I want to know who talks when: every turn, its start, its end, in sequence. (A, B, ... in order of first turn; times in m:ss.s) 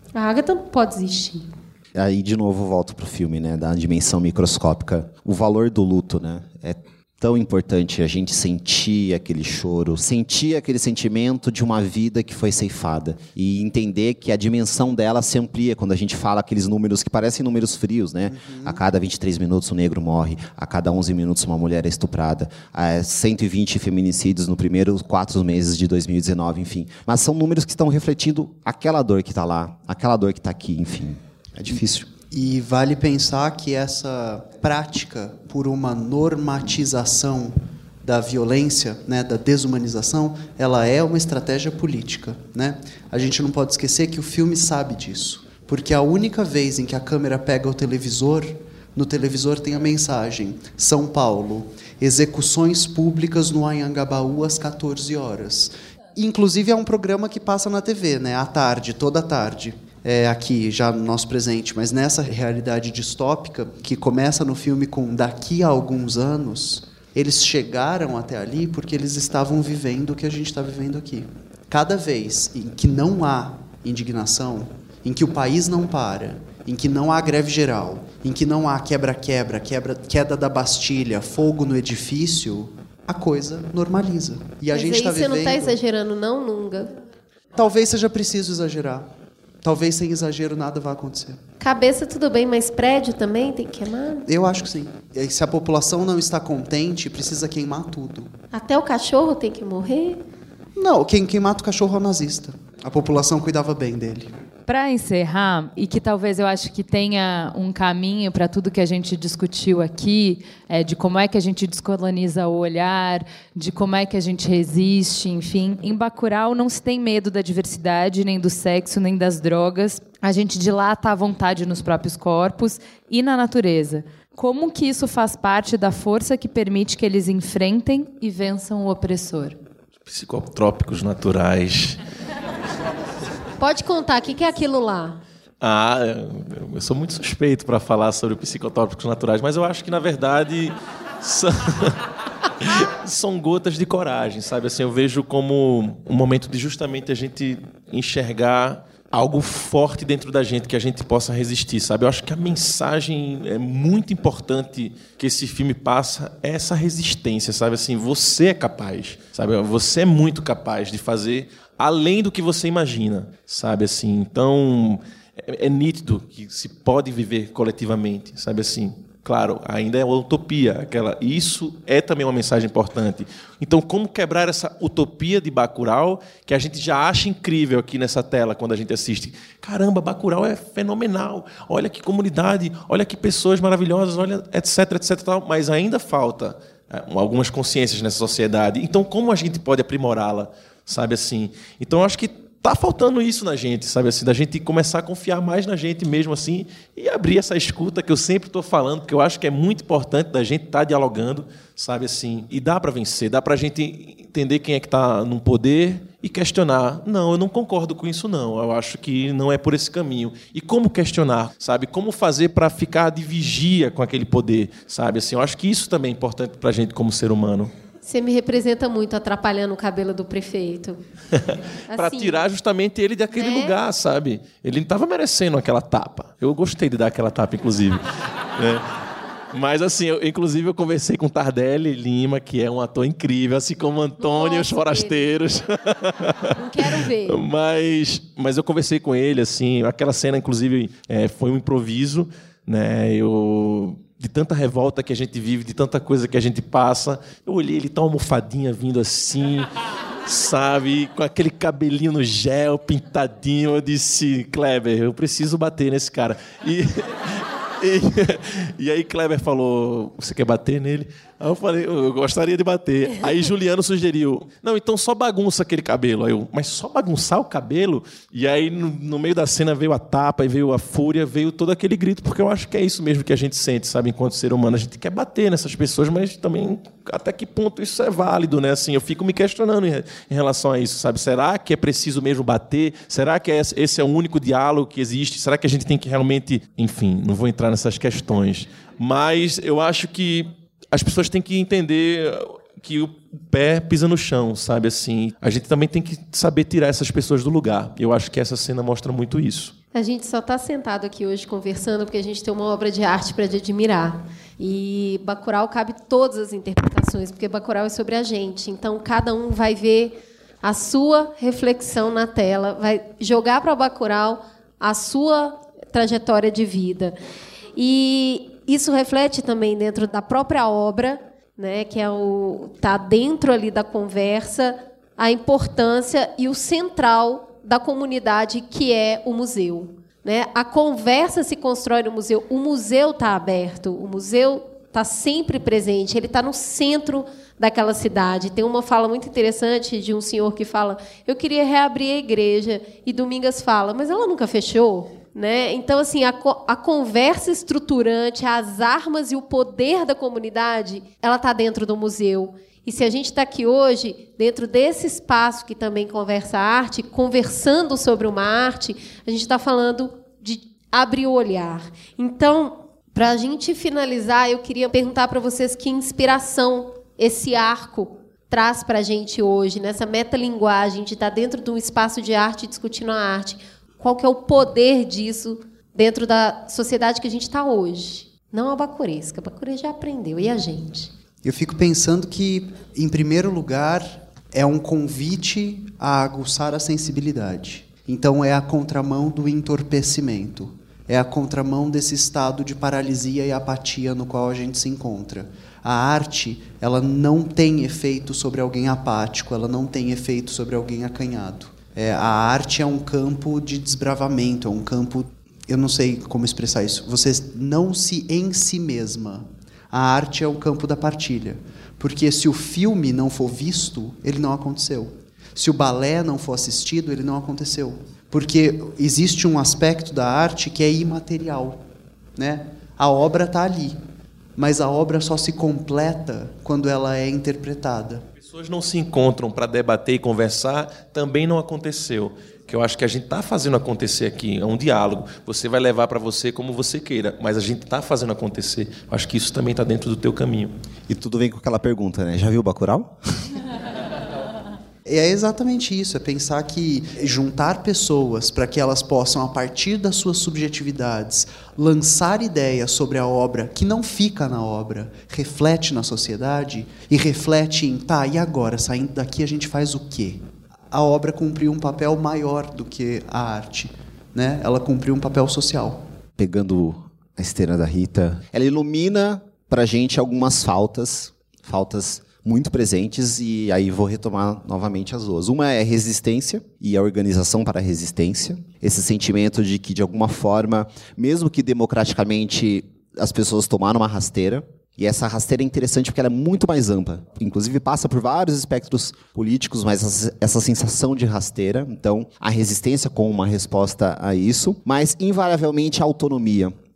0:00.1-0:01.5 A
0:01.9-0:32.1 B
0:18.3-0:18.8 C
0:32.3-1:25.8 C
1:24.7-1:27.0 A
1:27.5-1:29.1 C
1:29.6-1:31.4 C
1:31.6-1:34.3 A
1:34.3-1:38.3 C
1:38.5-1:40.2 A
1:40.8-1:44.3 C
1:44.7-2:09.6 D
2:10.0-2:12.0 E
2:13.6-2:15.2 A
2:15.6-2:22.0 E
2:22.6-3:37.7 E
3:38.0-3:41.0 A
3:41.3-3:48.0 E
3:41.9-3:42.4 A
3:43.3-3:43.8 A
3:48.6-3:48.8 E
3:49.5-4:09.7 E
3:54.2-3:55.1 A
3:56.5-3:57.4 A
4:10.2-4:59.7 E
4:59.9-5:17.2 A
5:17.8-6:21.1 A
6:21.4-7:01.8 C
7:02.4-7:04.0 C
7:04.6-7:08.2 C
7:08.4-7:20.7 E
7:21.1-7:23.1 B
7:25.0-7:46.0 C
7:46.4-8:16.7 B